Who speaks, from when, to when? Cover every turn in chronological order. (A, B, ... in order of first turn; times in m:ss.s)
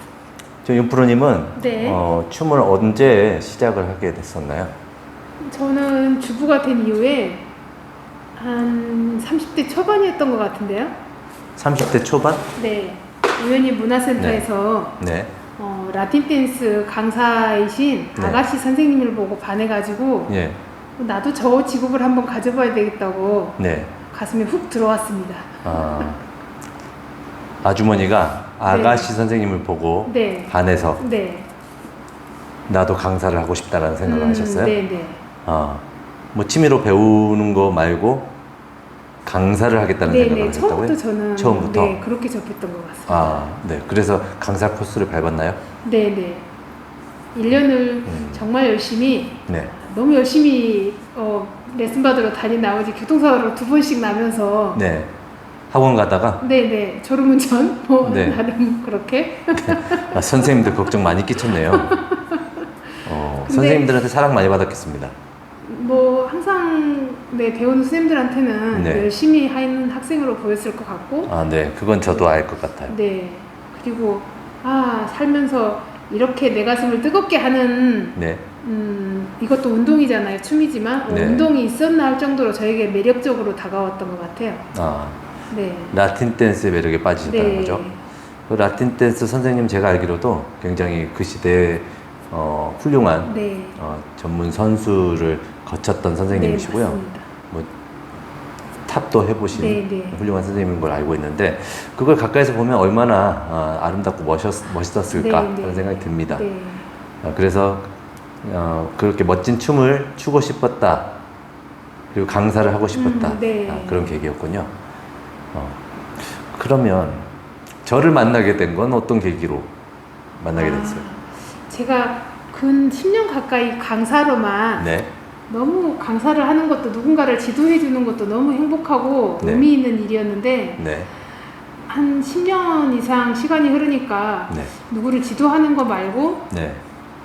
0:00.6-0:04.7 A
0:01.6-0:02.0 B
0:05.4-0:07.5 B
0:08.4-0:11.0 B
0:11.6-0:12.5 A
0:12.6-0:15.0 B
0:14.2-0:14.5 A
0:15.0-0:15.3 A
0:15.6-0:20.4 B
0:18.2-0:18.4 A
0:20.3-0:20.6 A
0:21.0-0:23.6 B
0:23.6-0:23.9 A
0:24.1-0:26.1 B
0:25.6-0:26.2 A
0:27.6-0:31.0 A
0:28.7-0:29.1 B
0:30.1-0:31.5 B
0:32.7-0:34.8 A
0:34.0-0:35.2 B
0:35.4-0:38.3 A
0:39.2-0:42.0 A
0:40.0-0:43.4 B
0:43.1-0:45.6 A
0:45.8-0:46.5 B
0:47.4-0:54.8 B
0:48.1-0:48.4 A
0:49.5-0:49.7 A
0:54.7-0:55.1 A
0:55.7-0:56.4 A
0:56.4-1:00.8 B
0:58.0-0:58.4 A
0:59.6-1:02.0 A
1:01.5-1:02.6 B
1:03.1-1:05.1 A
1:03.4-1:03.9 B
1:05.6-1:11.3 B
1:08.7-1:09.1 A
1:11.3-1:13.0 A
1:12.0-1:12.3 B
1:12.9-1:24.7 B
1:18.2-1:18.4 A
1:21.1-1:21.5 A
1:24.7-1:25.2 A
1:25.5-1:26.0 B
1:25.9-1:27.8 A
1:27.2-1:28.0 B
1:28.5-1:37.0 A
1:33.2-1:33.8 B
1:36.3-1:37.3 B
1:38.9-1:46.4 A
1:39.5-1:40.2 B
1:45.1-1:46.9 B
1:47.2-1:47.9 A
1:48.4-1:51.2 A
1:52.1-1:54.7 A
1:52.9-1:54.2 B
1:55.5-1:57.3 A
1:57.8-1:59.7 A
2:00.4-2:01.0 A
2:00.6-2:04.9 B
2:04.8-2:05.1 A
2:05.5-2:10.8 B
2:09.4-2:09.7 A
2:10.8-2:11.1 A
2:11.9-2:16.5 B
2:16.5-2:16.8 A